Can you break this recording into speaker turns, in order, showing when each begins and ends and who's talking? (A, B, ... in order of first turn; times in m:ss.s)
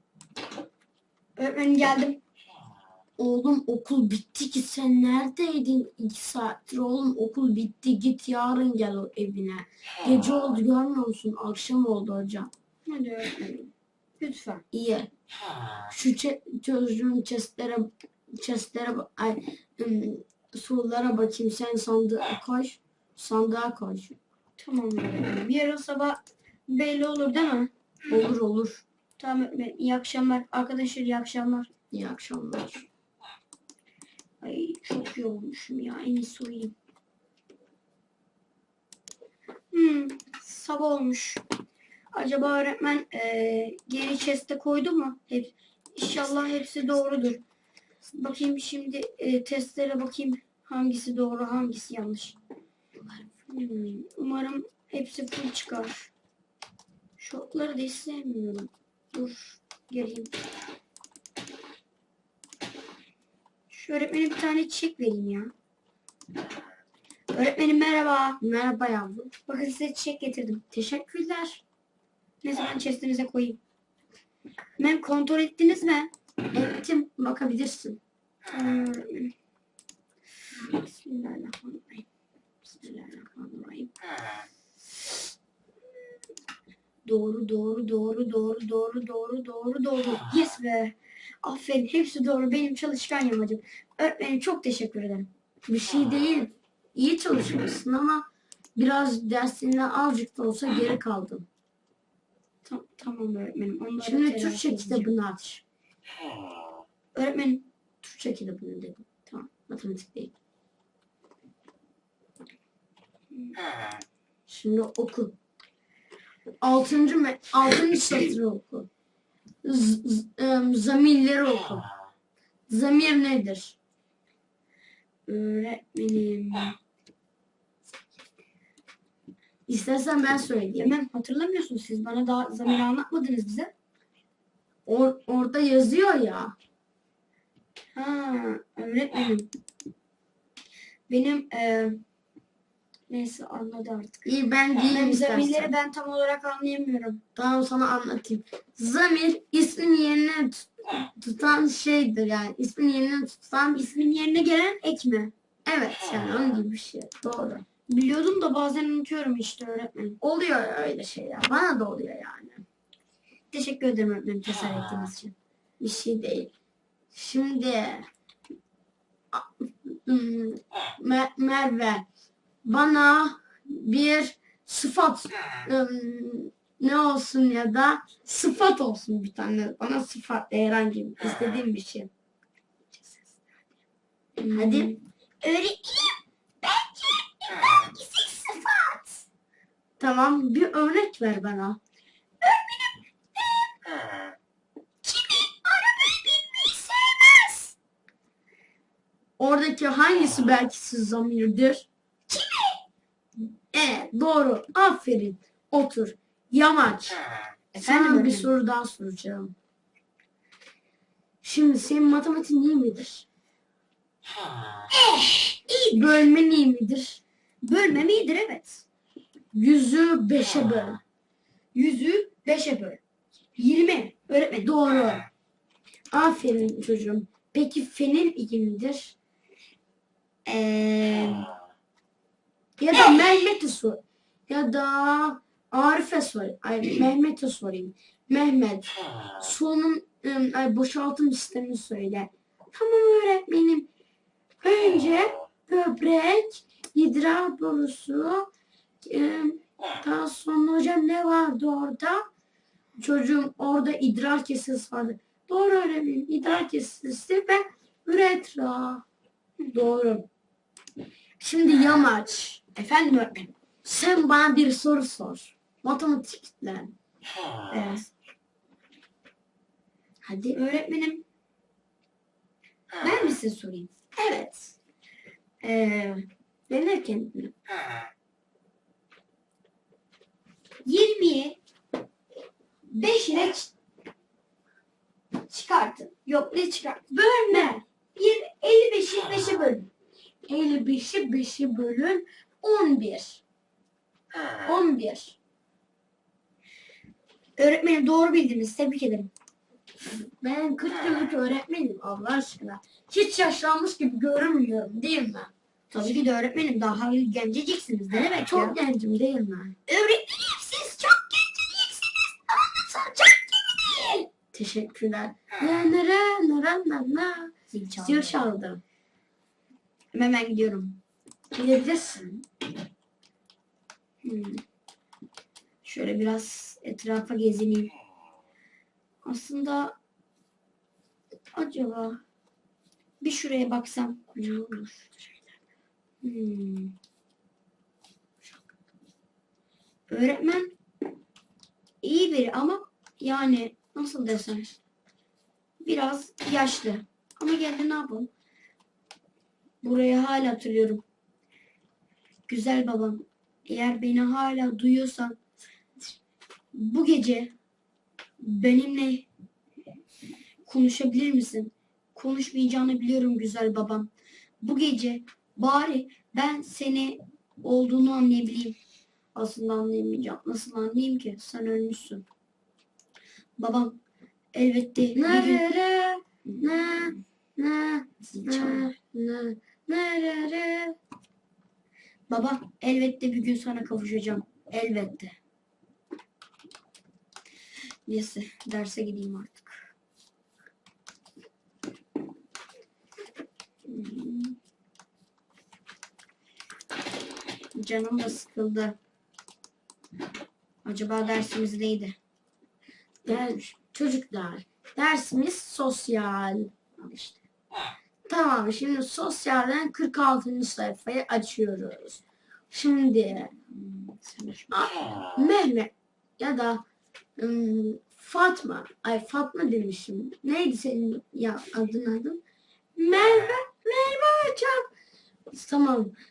0:01.4-0:02.2 A
0:03.2-0:12.5 B
0:12.8-0:14.6 A
0:14.7-0:15.1 B
0:15.9-0:24.2 B
0:24.6-0:27.7 A
0:28.1-0:28.8 B
0:29.2-0:31.7 A
0:31.9-0:32.9 B
0:34.4-0:36.7 A
0:39.7-0:41.4 A
0:42.1-0:47.4 A
0:48.1-0:52.4 A
0:53.3-0:56.1 A
0:57.2-1:00.3 A
1:03.7-1:05.5 A
1:07.3-1:08.4 A
1:08.4-1:09.3 B
1:09.4-1:10.6 A
1:10.7-1:11.6 B
1:12.4-1:13.6 A
1:14.8-1:16.1 A
1:16.5-1:18.0 B
1:18.5-1:19.3 A
1:20.6-1:22.0 A
1:22.6-1:23.9 A
1:27.0-1:35.3 A
1:35.6-1:41.5 B
1:42.6-1:45.1 A
1:44.0-1:45.6 B
1:47.1-1:47.7 A
1:48.0-1:50.3 B
1:54.5-1:55.3 B
1:56.6-1:58.9 B
1:59.6-2:01.9 B
2:02.7-2:03.8 B
2:05.2-2:06.8 A
2:09.7-2:10.9 B
2:10.8-2:13.7 A
2:14.8-2:16.5 B
2:17.9-2:19.5 A
2:21.1-2:22.0 A
2:23.1-2:24.2 A
2:24.2-2:25.7 B
2:24.9-2:27.2 A
2:27.3-2:33.9 B
2:33.7-2:35.3 A
2:35.6-2:37.6 B
2:37.9-2:40.2 A
2:40.2-2:42.6 B
2:43.5-2:45.3 A
2:45.8-2:46.5 B
2:47.1-2:48.1 B
2:49.3-2:52.0 B
2:52.6-3:02.1 B
3:04.4-3:09.2 A
3:04.5-3:04.9 B
3:10.0-3:11.8 B
3:12.4-3:13.7 A
3:15.0-3:17.7 A
3:19.4-3:21.9 B
3:22.3-3:22.8 A
3:23.7-3:27.2 B
3:27.7-3:28.5 A
3:27.8-3:29.5 B
3:31.4-3:33.2 B
3:34.9-3:36.2 A
3:35.9-3:37.2 B
3:37.6-3:38.8 A
3:39.5-3:41.0 B
3:41.7-3:43.0 A
3:43.6-3:44.7 A
3:44.6-3:45.3 B
3:46.1-3:49.1 B
3:50.4-3:51.5 A
3:52.8-4:03.9 B
4:04.6-4:08.5 B
4:09.0-4:12.3 B
4:13.0-4:19.0 B
4:19.7-4:20.2 B
4:21.4-4:22.6 B
4:22.7-4:23.5 A
4:23.8-4:26.9 B
4:27.7-4:28.1 A
4:30.2-4:30.6 B
4:30.5-4:31.2 A
4:33.0-4:34.8 A
4:35.6-4:36.2 A
4:36.7-4:37.5 B
4:40.8-4:41.6 A
4:42.9-4:43.7 A
4:45.5-4:49.9 A
4:47.5-4:47.8 B
4:50.5-4:53.4 B
4:54.6-4:55.4 B
4:57.6-4:59.3 A
5:00.0-5:05.5 B
5:05.9-5:08.8 A
5:08.4-5:09.8 B
5:09.9-5:14.3 A
5:14.5-5:18.8 B
5:17.7-5:18.4 A
5:20.1-5:21.0 A
5:21.5-5:22.2 B
5:21.7-5:22.2 A
5:24.2-5:24.6 A
5:25.8-5:27.9 A
5:29.2-5:30.0 A
5:31.5-5:32.2 A
5:33.2-5:35.2 A
5:36.2-5:36.9 A
5:40.1-5:40.7 A
5:42.0-5:44.8 A
5:45.8-5:48.3 A
5:49.8-5:51.0 A
5:52.5-5:55.4 A
5:56.7-5:57.5 A
5:58.4-5:59.2 A
6:00.6-6:04.1 A
6:04.6-6:08.8 A
6:09.3-6:12.2 A
6:13.6-6:14.0 A
6:14.5-6:15.6 A
6:15.1-6:20.9 B
6:16.4-6:17.1 A
6:18.2-6:18.9 A
6:22.3-6:25.3 A
6:28.1-6:29.8 A
6:33.9-6:34.6 A
6:37.7-6:39.0 A
6:40.8-6:42.2 A
6:43.2-6:43.7 A
6:43.2-6:46.7 B
6:47.0-6:47.4 A
6:48.3-6:53.5 B
6:53.7-6:54.9 A
6:54.7-6:56.8 B
6:57.4-7:02.4 B
7:03.0-7:04.9 B
7:05.5-7:06.1 B